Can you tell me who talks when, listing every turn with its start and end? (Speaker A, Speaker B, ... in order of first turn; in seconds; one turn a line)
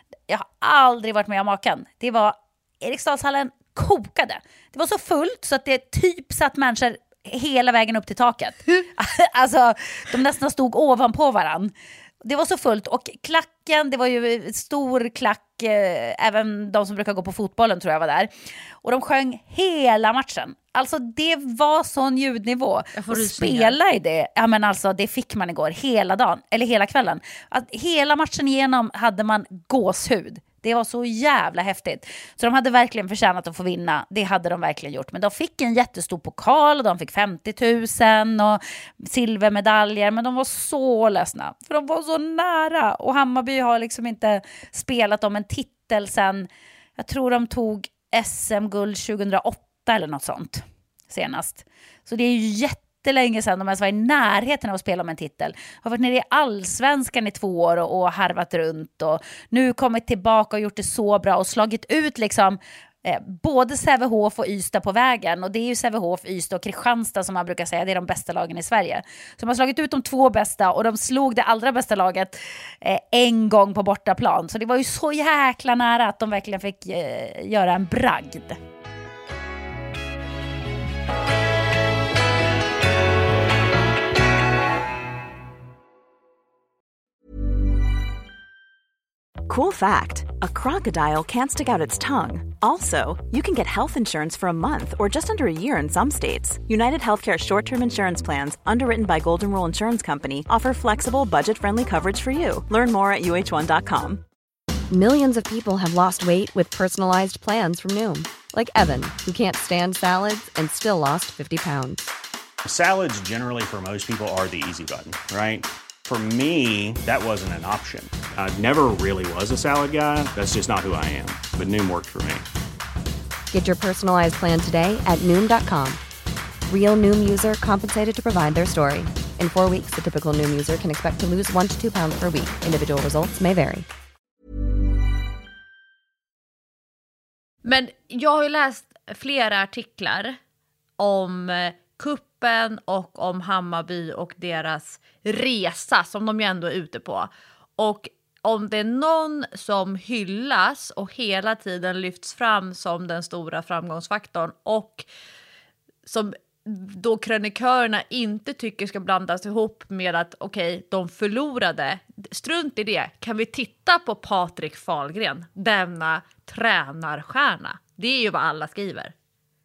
Speaker A: 0.3-78.6
Speaker B: 22.9-23.8
Speaker C: 89.5-104.2
Speaker D: 104.9-112.0
Speaker E: 112.6-122.4
Speaker D: 123.5-126.0
Speaker D: 126.7-133.9
Speaker B: 137.6-140.4
Speaker B: 141.0-155.0
Speaker B: 156.1-169.1